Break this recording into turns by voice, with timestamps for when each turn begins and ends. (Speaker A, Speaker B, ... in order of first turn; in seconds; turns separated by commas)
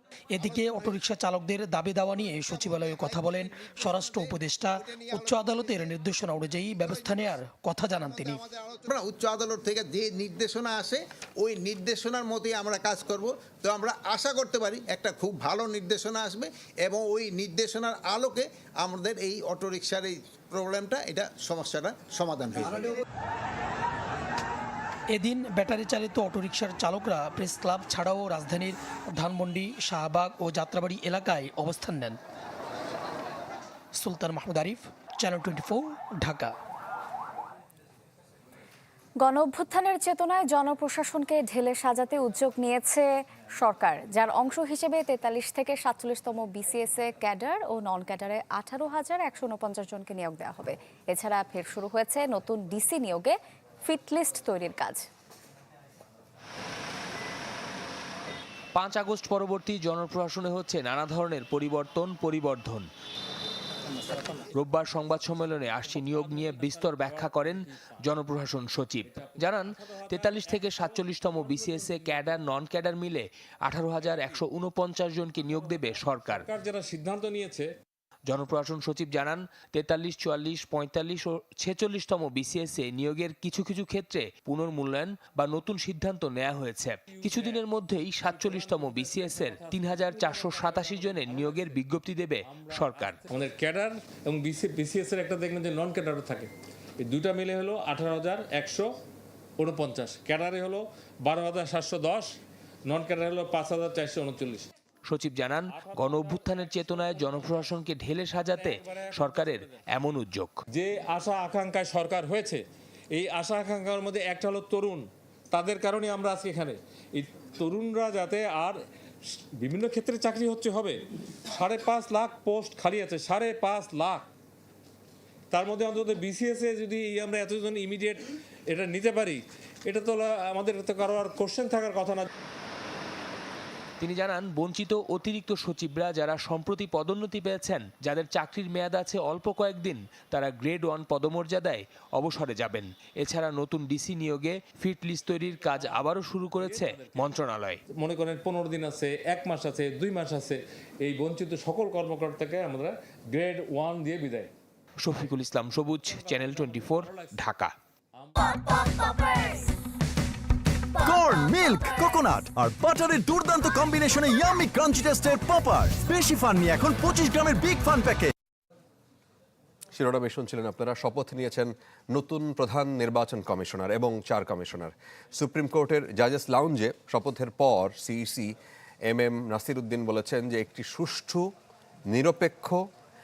Speaker A: 0.3-8.4, Speaker B: 8.9-22.9, Speaker A: 25.1-32.2, Speaker A: 34.0-36.5, Speaker C: 39.2-55.1, Speaker D: 58.8-62.9, Speaker D: 64.5-76.5, Speaker E: 65.2-67.7, Speaker E: 69.1-72.3, Speaker E: 74.0-74.4, Speaker E: 75.4-77.7, Speaker D: 78.3-93.3, Speaker E: 87.1-87.6, Speaker E: 88.2-91.8, Speaker E: 92.5-96.5, Speaker E: 97.0-98.9, Speaker E: 99.6-102.3, Speaker E: 102.9-104.7, Speaker D: 105.1-110.6, Speaker E: 105.7-107.7, Speaker E: 108.4-109.8, Speaker E: 110.7-112.6, Speaker E: 113.1-118.8, Speaker E: 119.6-121.0, Speaker E: 121.5-124.3, Speaker E: 125.5-132.3, Speaker D: 134.0-147.8, Speaker E: 145.4-147.4, Speaker E: 148.0-154.5, Speaker D: 155.0-157.8, Speaker E: 156.1-157.4, Speaker E: 158.2-158.6, Speaker F: 161.0-168.3, Speaker G: 169.9-178.5, Speaker G: 179.1-181.5, Speaker G: 182.1-182.8